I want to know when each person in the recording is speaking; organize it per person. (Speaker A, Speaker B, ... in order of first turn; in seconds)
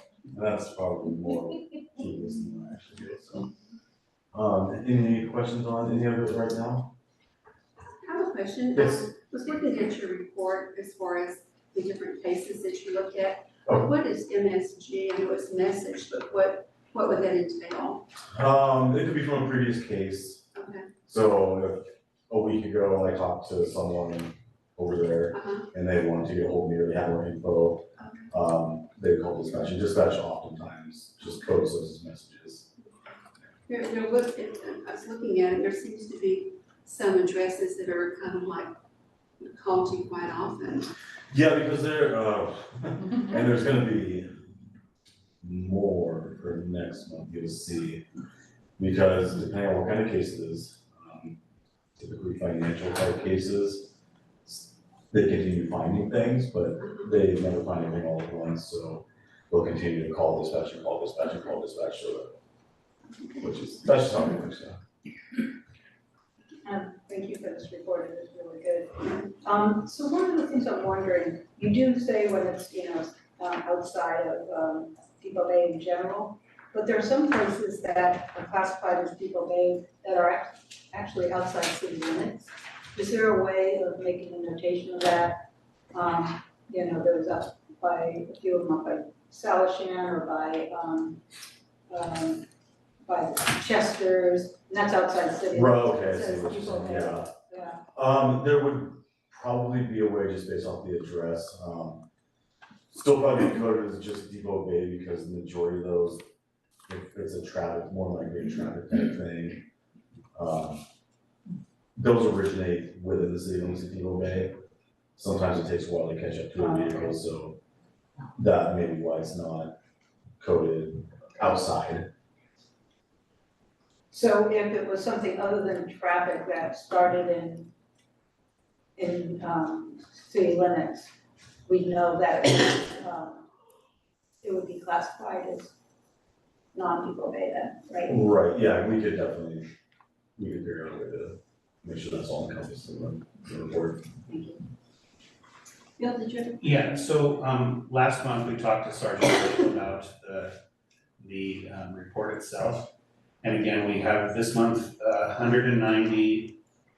Speaker A: 0.3-3.5, 4.3-6.9, 8.8-9.1, 18.3-20.4, 21.1-32.7, 41.3-44.3, 45.4-48.0, 48.8-51.4, 52.0-53.9, 54.5-62.4, 63.4-64.8, 95.5-97.3, 97.9-102.0, 102.9-106.2, 106.9-109.6, 110.3-110.8, 112.0-114.5, 115.2-117.6, 118.3-119.7, 120.4-122.0, 138.1-139.7, 140.4-144.0
Speaker B: 8.0-18.1, 20.5-20.9, 25.3-25.7, 28.0-28.3, 33.7-38.7, 39.4-40.9
Speaker C: 66.6-91.2, 91.9-92.5, 93.0-97.8, 116.6-117.1, 124.1-127.7, 128.9-131.1, 131.7-133.4, 134.4-135.7, 136.7-138.2, 144.3-144.6, 146.0-146.8
Speaker D: 146.6-150.6, 151.2-156.6